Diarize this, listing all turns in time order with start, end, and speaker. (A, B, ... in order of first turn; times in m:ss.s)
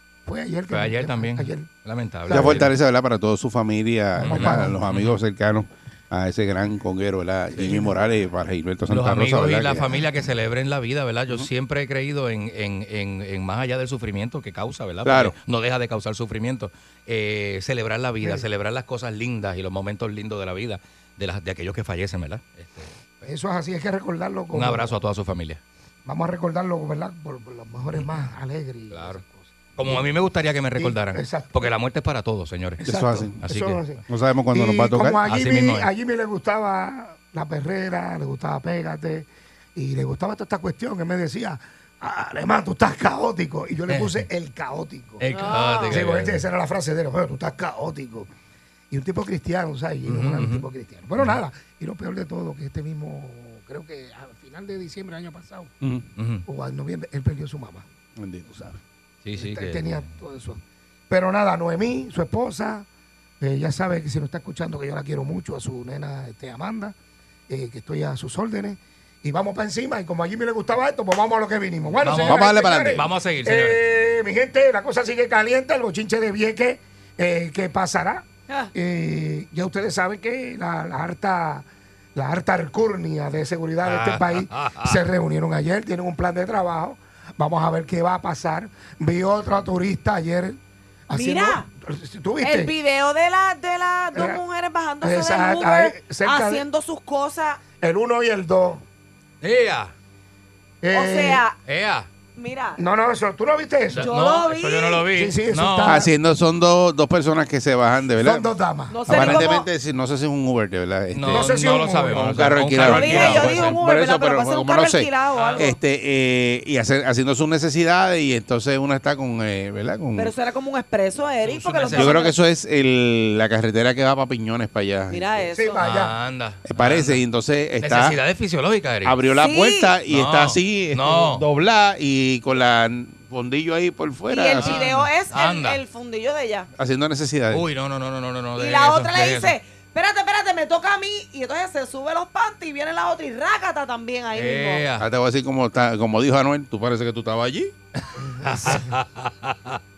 0:00.3-0:01.7 A
0:00.7-0:02.7 B
0:02.3-0:02.7 A
0:02.3-0:09.9 C
0:04.2-0:05.2 B
0:04.3-0:04.8 A
0:07.6-0:07.9 A
0:08.9-0:23.0 B
0:15.0-0:15.4 C
0:23.2-0:24.9 A
0:24.5-0:25.6 B
0:26.0-0:30.1 A
0:28.9-0:29.2 B
0:29.8-0:32.8 B
0:30.8-0:31.7 A
0:32.8-0:45.3 A
0:32.8-0:33.4 C
0:33.4-0:33.8 B
0:34.1-0:35.2 C
0:35.3-0:35.9 B
0:43.9-0:44.2 B
0:45.2-0:46.4 B
0:45.3-0:46.0 D
0:45.9-0:48.3 A
0:48.9-0:55.7 A
0:50.0-0:50.7 B
0:56.2-0:56.4 B
0:56.5-0:57.9 A
0:58.2-0:58.7 C
0:58.5-0:58.8 A
0:59.2-1:00.1 B
0:59.4-1:02.9 A
1:03.4-1:07.0 A
1:07.5-1:30.6 A
1:12.0-1:13.8 B
1:12.2-1:13.1 C
1:23.8-1:25.0 B
1:31.1-1:32.7 A
1:31.1-1:31.7 D
1:32.4-1:37.6 D
1:34.2-1:34.4 A
1:35.0-1:36.6 A
1:37.8-1:38.8 A
1:39.4-1:39.9 B
1:40.8-1:41.4 A
1:40.9-1:41.6 D
1:41.6-1:42.1 B
1:42.4-1:42.8 D
1:42.8-1:44.1 A
1:43.9-1:46.0 B
1:44.0-1:45.1 D
1:45.1-1:46.1 A
1:45.8-1:48.5 C
1:48.2-1:49.6 A
1:48.9-1:49.7 D
1:49.1-2:00.3 C
1:51.1-1:53.8 B
1:51.3-1:52.2 A
1:52.8-1:55.8 D
1:55.4-1:55.7 B
2:00.2-2:02.4 D
2:01.4-2:02.2 B
2:01.9-2:05.3 C
2:05.1-2:05.8 D
2:05.6-2:06.1 A
2:05.8-2:07.2 B
2:06.7-2:08.2 C
2:07.8-2:09.2 B
2:09.0-2:14.8 C
2:09.4-2:09.9 D
2:10.1-2:11.4 B
2:14.3-2:16.7 D
2:14.6-2:15.8 B
2:16.8-2:17.7 C
2:17.5-2:19.6 B
2:18.6-2:24.9 D
2:24.3-2:25.1 B
2:25.0-2:27.7 C
2:28.4-2:29.8 B
2:28.4-2:28.8 A